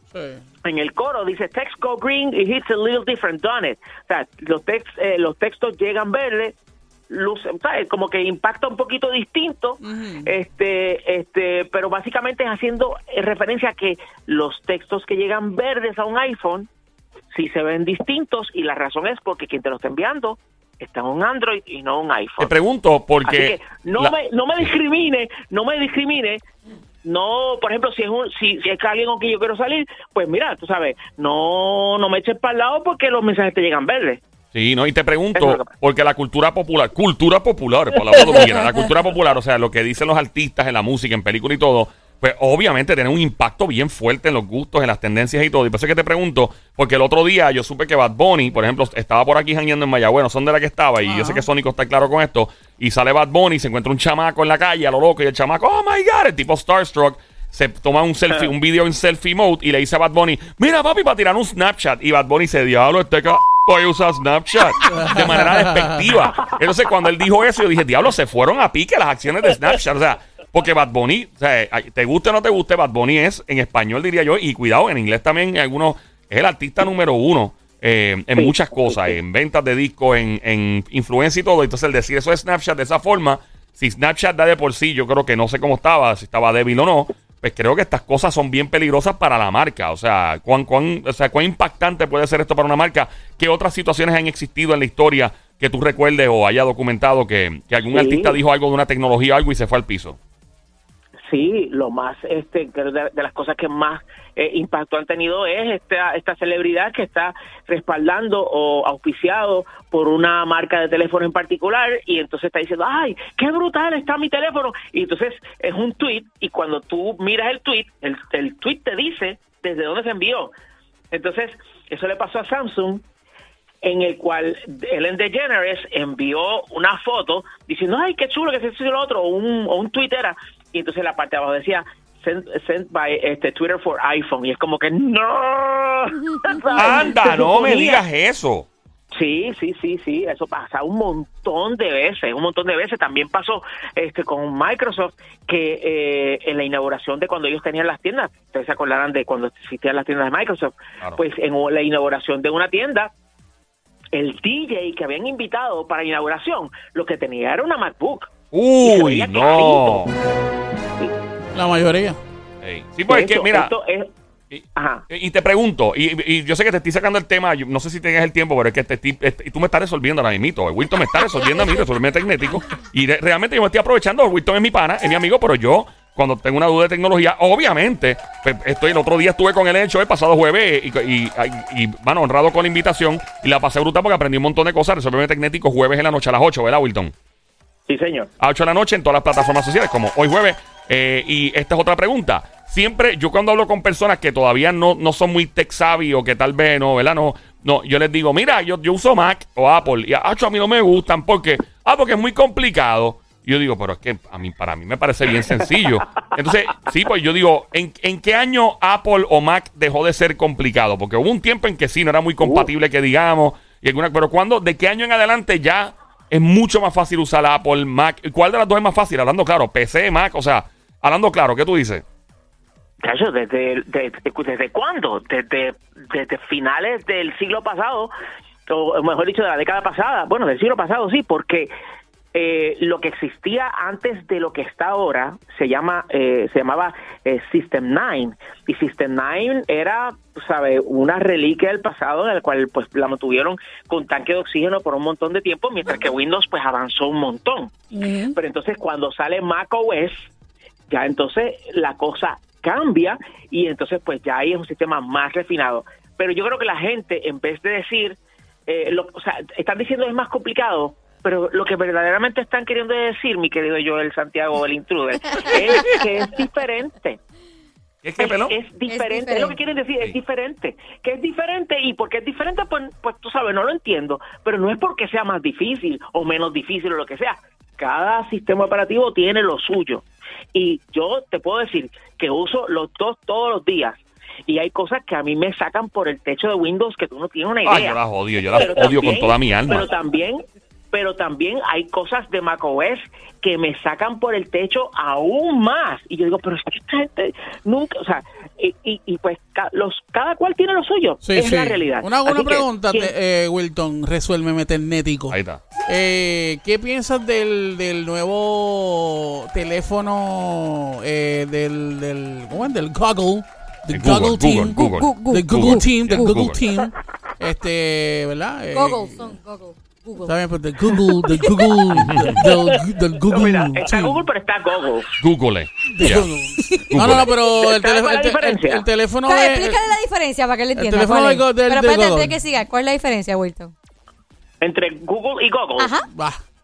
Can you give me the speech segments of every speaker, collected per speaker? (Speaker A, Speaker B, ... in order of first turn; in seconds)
Speaker A: 0.1-0.4, 9.8-10.3, 51.0-51.5, 64.9-66.1, 161.5-162.2, 247.9-248.3, 301.2-319.3, 320.2-324.2, 325.9-329.8, 330.8-332.4, 336.1-336.4
Speaker B: 0.6-6.5, 7.1-16.7, 17.3-22.5, 23.2-26.4, 27.0-34.2, 35.3-35.7, 78.3-79.2, 97.9-98.4, 101.3-120.5, 121.1-123.0, 123.8-138.0, 139.1-153.1, 154.1-158.3, 158.8-160.1, 163.1-164.1, 164.8-165.0, 187.9-188.3, 212.4-212.7, 223.0-228.1, 228.7-231.7, 232.3-247.7, 248.3-250.2, 250.9-267.2, 268.2-288.0, 288.5-303.1, 323.2-325.1, 327.6-328.8, 334.6-335.9
Speaker C: 22.4-24.1, 34.5-100.2, 136.8-138.7, 158.5-160.1, 162.6-163.7, 164.5-187.1, 188.4-222.0, 268.0-268.5, 287.6-289.9, 305.3-305.6, 313.9-316.6, 322.0-322.4, 325.2-326.3, 326.9-327.3
Speaker D: 136.4-136.9, 171.4-171.9, 265.3-266.0, 268.9-269.6, 314.7-316.4, 318.7-320.4, 320.9-321.6, 326.6-327.1, 329.2-333.7, 335.8-336.1